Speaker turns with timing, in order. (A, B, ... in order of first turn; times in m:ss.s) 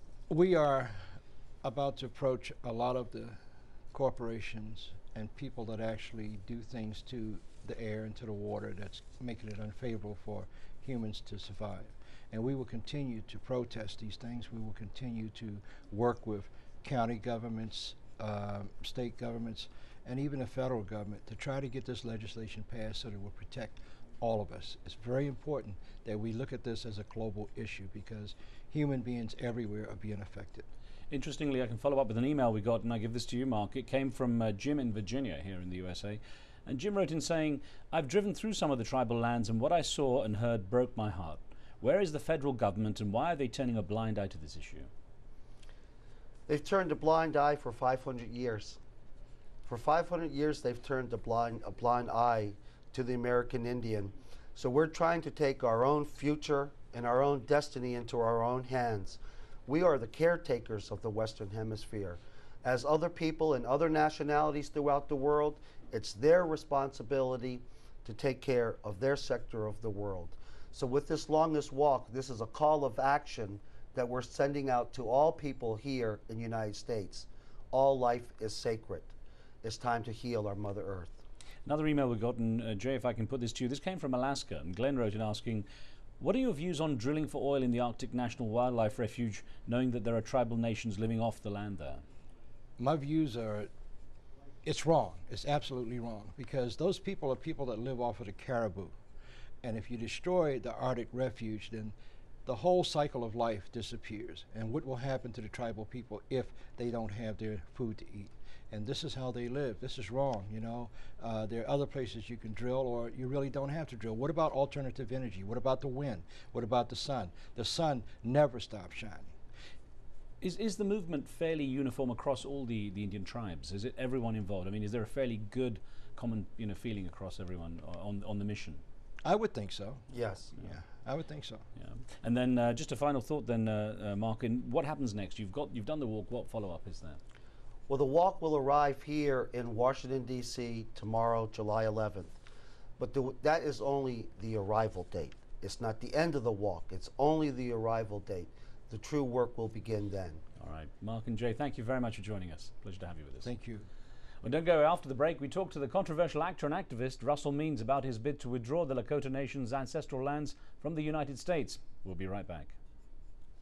0:00.3-0:03.4 A
0:03.9-0:30.7 A
0:31.1-0:44.9 B
0:46.5-0:48.8 C
0:49.6-1:21.2 C
1:21.6-1:25.6 B
1:26.2-1:32.0 B
1:32.8-1:33.7 A
1:34.6-1:39.0 A
1:39.6-1:41.9 A
1:42.4-1:59.3 A
2:00.4-2:08.8 B
2:09.2-2:11.6 A
2:10.1-2:10.5 C
2:11.8-2:17.2 B
2:17.9-2:22.4 C
2:23.0-2:30.4 C
2:30.6-2:33.5 B
2:33.4-2:33.9 A
2:34.4-2:42.8 B